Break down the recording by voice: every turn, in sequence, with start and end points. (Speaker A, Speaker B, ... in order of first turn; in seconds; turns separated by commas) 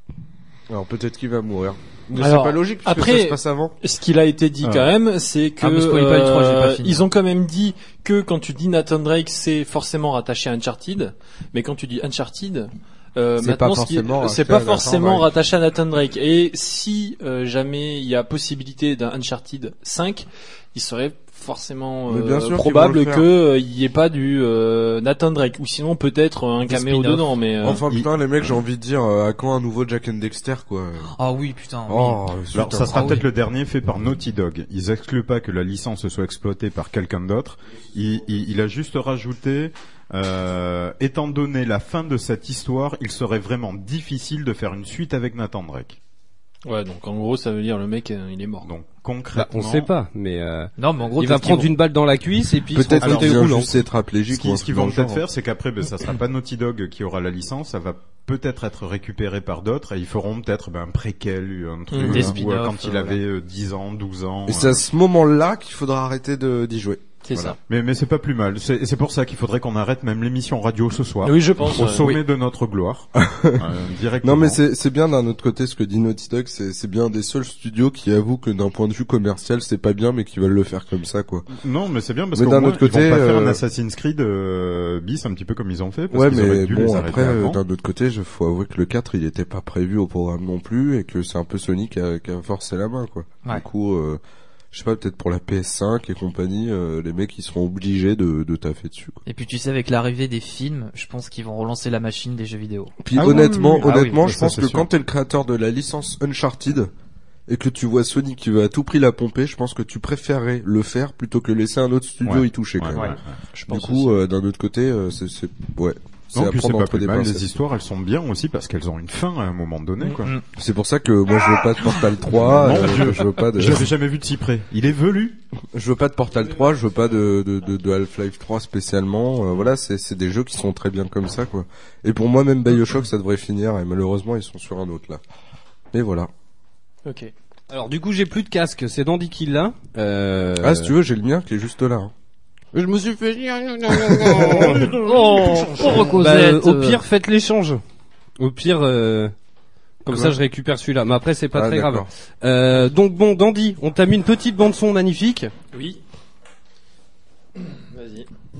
Speaker A: 0.7-3.7, Speaker B: 2.2-27.8, Speaker C: 4.6-4.9, Speaker D: 5.6-7.0, Speaker A: 13.4-15.3, Speaker A: 22.1-23.3, Speaker D: 26.7-27.2, Speaker A: 27.6-31.1, Speaker D: 31.1-32.2, Speaker A: 31.9-33.1, Speaker C: 32.5-46.0, Speaker D: 32.9-33.2, Speaker B: 46.6-48.7, Speaker C: 48.6-49.9, Speaker E: 49.3-53.7, Speaker D: 50.8-51.7, Speaker A: 52.7-55.2, Speaker C: 53.0-53.5, Speaker C: 54.3-64.8, Speaker B: 61.9-62.3, Speaker D: 62.0-63.2, Speaker A: 64.5-67.5, Speaker B: 67.2-67.6, Speaker C: 67.6-74.6, Speaker B: 71.2-72.1, Speaker A: 73.2-73.7, Speaker A: 74.2-81.5, Speaker C: 81.5-87.6, Speaker A: 82.3-83.6, Speaker A: 86.1-94.2, Speaker A: 94.7-99.2, Speaker D: 99.2-104.3, Speaker A: 103.0-106.9, Speaker C: 103.1-104.9, Speaker A: 107.5-113.1, Speaker C: 112.2-113.4, Speaker B: 112.9-114.2, Speaker A: 113.7-117.5, Speaker C: 116.3-120.4, Speaker A: 120.5-123.9, Speaker C: 122.3-125.4, Speaker A: 125.7-135.2, Speaker A: 135.9-136.3, Speaker B: 137.0-137.3, Speaker E: 137.7-140.9, Speaker A: 140.6-142.1, Speaker E: 142.7-145.0, Speaker A: 144.2-144.8, Speaker D: 144.8-147.0, Speaker C: 145.5-146.1, Speaker E: 145.9-147.8, Speaker E: 148.4-149.3, Speaker E: 150.0-155.5, Speaker A: 150.1-150.3, Speaker A: 151.5-152.1, Speaker B: 155.7-156.0, Speaker B: 157.6-158.3